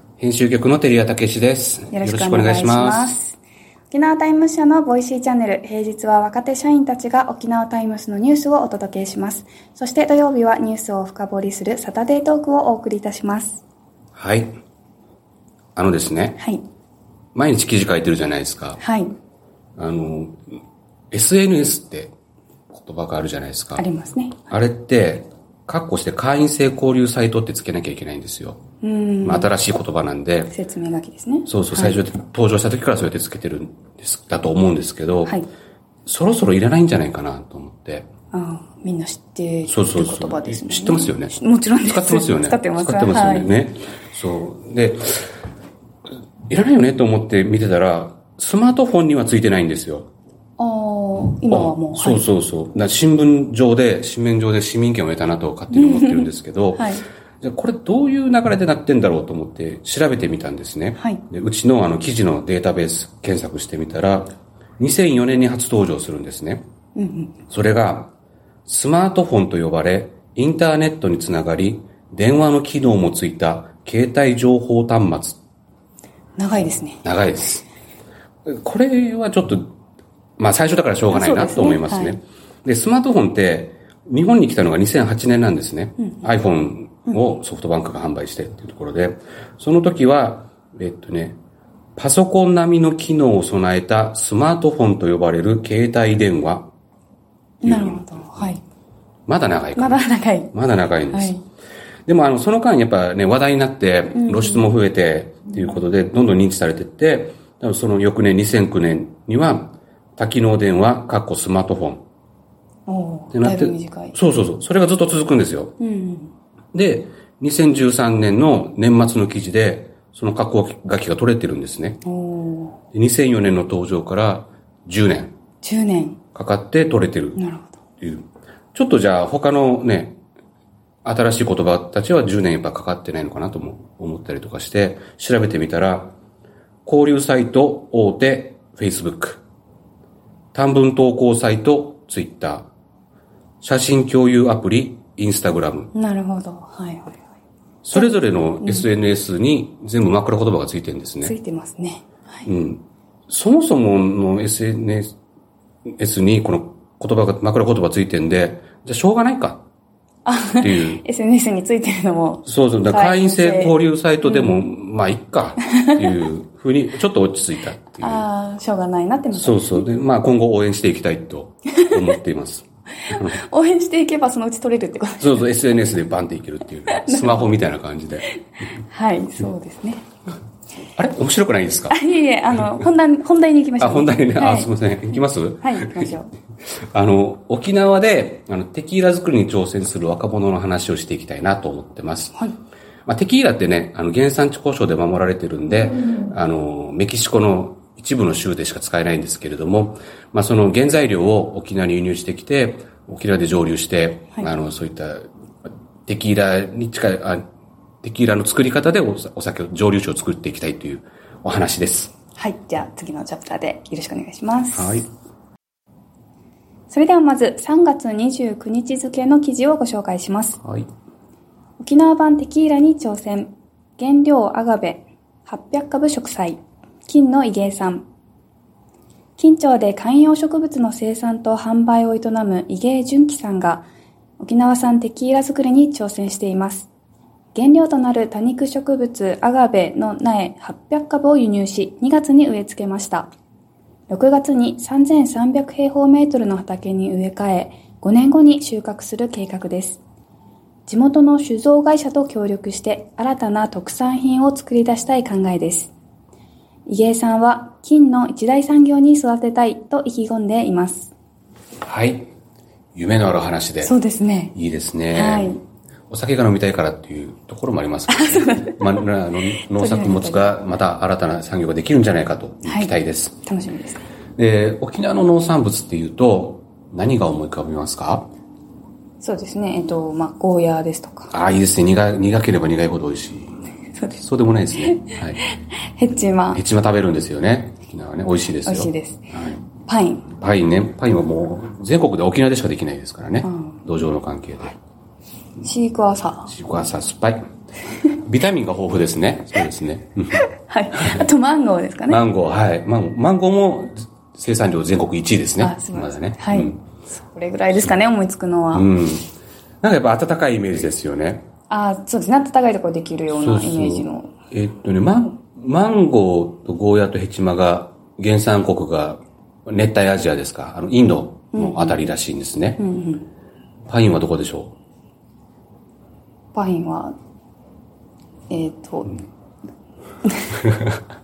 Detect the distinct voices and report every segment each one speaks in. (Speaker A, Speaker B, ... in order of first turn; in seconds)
Speaker A: 0.2-3.1, 14.1-14.5, 15.8-16.4, 17.3-18.8, 19.8-20.4, 21.1-22.1, 22.7-23.8, 24.5-28.6, 29.2-30.5, 31.5-35.4, 36.0-38.1, 39.6-45.3, 46.5-50.1, 51.5-66.6, 67.5-68.1, 68.6-75.4, 77.0-77.6, 78.4-79.7, 80.4-91.4, 92.0-96.7, 97.6-98.5, 99.3-100.0, 100.5-101.3, 102.1-112.0, 113.3-115.7, 116.7-122.0, 122.9-125.3, 126.3-127.4, 128.0-130.2, 131.0-136.1, 136.8-139.4, 140.5-142.7, 143.6-145.9, 147.8-151.3, 152.4-155.1, 155.9-159.6, 160.6-161.0, 162.4-168.3, 169.3-173.4, 175.2-178.3, 180.9-182.0, 183.8-186.1, 186.9-192.4, 193.1-205.3, 206.1-207.4, 208.0-212.1, 214.7-215.1, 220.6-220.9, 261.8-262.3, 262.9-263.9, 264.5-265.5, 266.1-273.4, 274.4-278.3, 281.3-283.5, 284.2-285.4, 286.5-289.6, 290.3-294.8, 296.5-297.4, 298.2-300.4, 300.9-301.2, 302.1-306.8, 308.7-309.3, 309.8-311.5, 313.3-322.8, 323.9-324.7
Speaker B: 1.9-3.4, 3.9-13.6, 18.8-19.1, 23.8-24.4, 28.8-29.5, 30.5-32.0, 38.3-43.5, 50.6-52.2, 55.7-57.0, 61.0-61.2, 67.0-67.3, 76.4-77.0, 81.1-82.2, 97.6-98.6, 99.8-100.5, 101.1-101.4, 104.1-104.6, 112.9-114.1, 115.8-116.3, 122.0-122.8, 125.6-126.2, 127.3-127.8, 145.9-147.2, 147.9-148.9, 151.2-152.5, 160.2-164.6, 168.0-169.8, 173.1-175.5, 176.9-177.5, 178.7-180.1, 181.9-184.7, 185.6-186.3, 212.3-215.0, 216.9-220.6, 221.8-228.0, 229.4-233.9, 234.4-236.9, 237.5-243.3, 244.1-250.0, 250.8-255.9, 256.9-261.1, 263.8-264.5, 265.1-265.6, 268.1-270.6, 272.6-272.9, 273.4-274.0, 279.2-281.3, 284.0-284.2, 284.8-286.6, 288.6-289.3, 289.8-290.3, 293.4-293.8, 295.6-296.5, 300.3-302.2, 305.6-308.9, 311.7-314.3, 321.5-322.0, 322.8-323.3, 326.5-327.1, 328.5-329.2, 330.2-330.6